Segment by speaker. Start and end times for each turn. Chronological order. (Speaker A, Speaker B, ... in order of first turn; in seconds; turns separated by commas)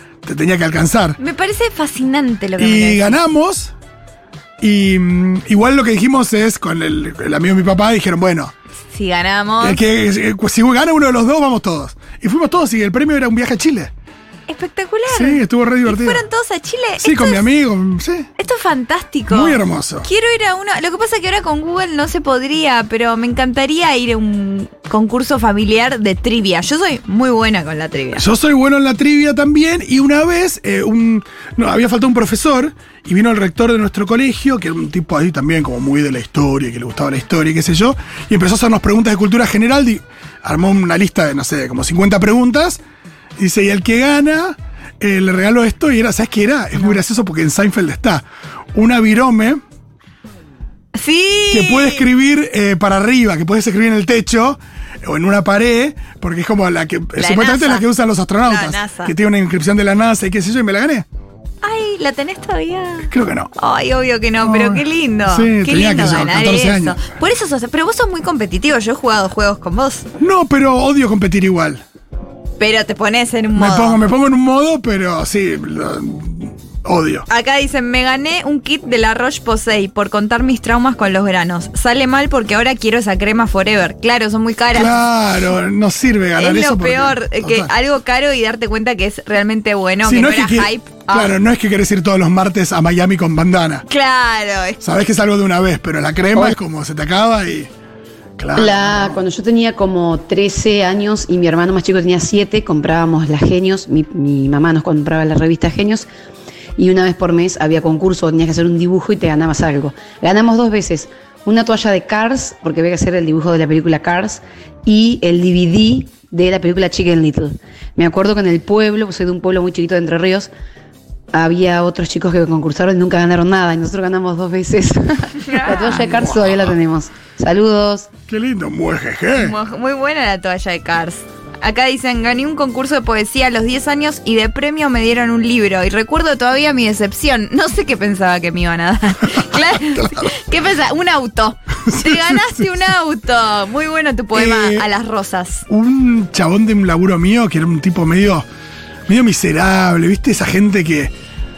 Speaker A: 0.2-1.2, Speaker B: 1.2-3.2, Speaker A: 2.6-3.7, Speaker A: 4.6-8.5, Speaker B: 8.9-9.8, Speaker A: 9.6-13.9, Speaker B: 14.5-17.5, Speaker A: 15.1-16.2, Speaker A: 17.0-18.3, Speaker B: 18.4-28.2, Speaker A: 19.3-20.1, Speaker A: 28.1-42.8, Speaker A: 43.4-49.6, Speaker B: 50.9-52.0, Speaker A: 51.5-61.0, Speaker B: 57.2-57.8, Speaker B: 58.5-59.1, Speaker B: 61.6-70.1, Speaker A: 63.0-63.5, Speaker A: 64.4-67.0, Speaker A: 70.2-71.8, Speaker B: 72.6-74.0, Speaker A: 73.5-77.3, Speaker B: 77.3-84.9, Speaker A: 84.7-87.7, Speaker B: 86.4-91.3, Speaker A: 90.0-93.8, Speaker B: 93.9-94.8, Speaker A: 94.8-97.7, Speaker A: 98.4-99.1, Speaker C: 98.5-106.1, Speaker C: 106.8-120.5, Speaker C: 121.3-128.1, Speaker B: 125.5-126.0, Speaker A: 126.2-126.5, Speaker A: 128.3-129.6, Speaker B: 129.4-145.7, Speaker A: 139.9-140.3, Speaker A: 141.9-142.7, Speaker A: 144.3-144.8, Speaker A: 145.7-148.5, Speaker A: 149.1-151.1